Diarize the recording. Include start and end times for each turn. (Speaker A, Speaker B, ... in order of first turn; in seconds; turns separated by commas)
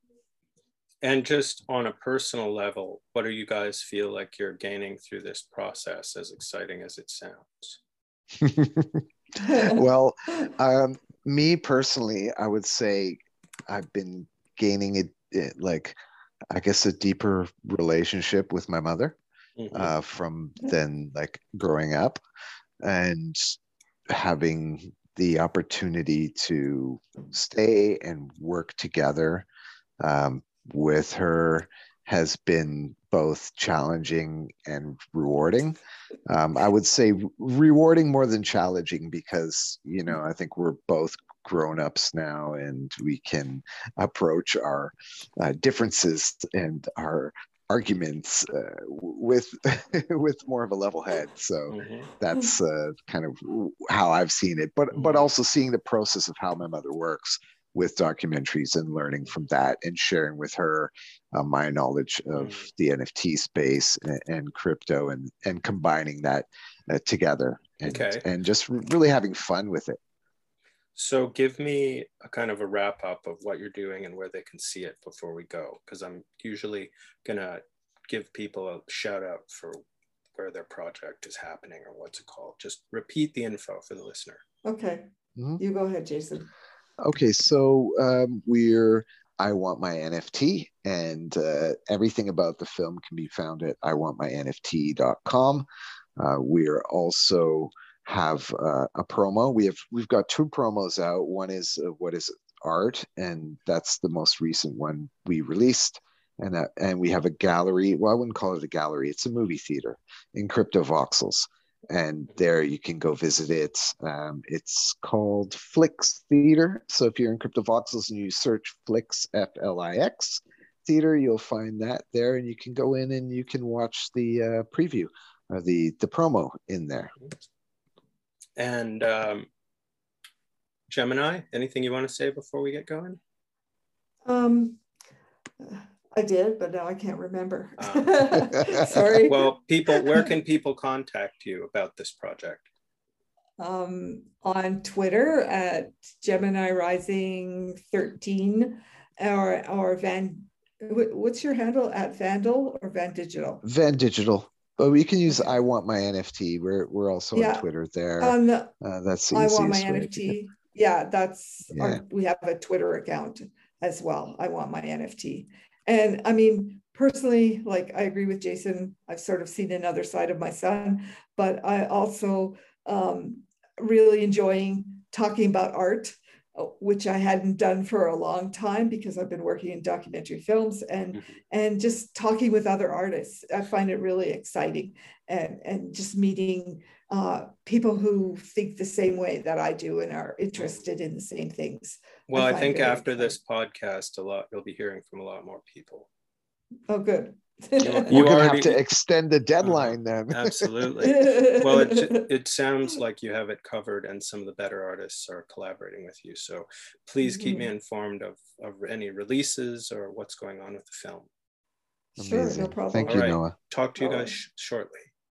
Speaker A: 1.0-7.8, Speaker B: 8.4-15.9, Speaker C: 9.4-9.8, Speaker B: 16.5-19.2, Speaker A: 19.6-19.9, Speaker B: 19.7-22.2, Speaker B: 22.8-23.6, Speaker B: 24.1-29.5, Speaker B: 30.0-70.0, Speaker A: 51.7-52.1, Speaker A: 54.9-55.3, Speaker A: 62.4-62.6, Speaker A: 67.8-68.2, Speaker A: 71.0-79.8, Speaker A: 80.3-84.4, Speaker C: 84.6-85.1, Speaker C: 85.6-86.5, Speaker B: 87.0-95.6, Speaker B: 96.2-127.1, Speaker A: 128.6-129.5, Speaker A: 130.9-133.2, Speaker C: 134.2-134.8, Speaker C: 135.6-140.3, Speaker A: 137.8-138.3, Speaker A: 139.2-142.7, Speaker C: 143.6-153.6, Speaker B: 153.6-160.3, Speaker C: 155.2-155.6, Speaker C: 157.3-157.7, Speaker C: 158.2-158.7, Speaker C: 159.3-193.3, Speaker B: 161.7-162.0, Speaker A: 192.3-196.1, Speaker C: 196.9-198.2, Speaker A: 197.8-198.8, Speaker B: 198.1-200.9, Speaker A: 199.6-211.3, Speaker C: 201.0-202.3, Speaker C: 207.2-207.7, Speaker B: 212.2-213.5, Speaker C: 212.2-213.3, Speaker A: 213.0-215.1, Speaker C: 214.0-214.3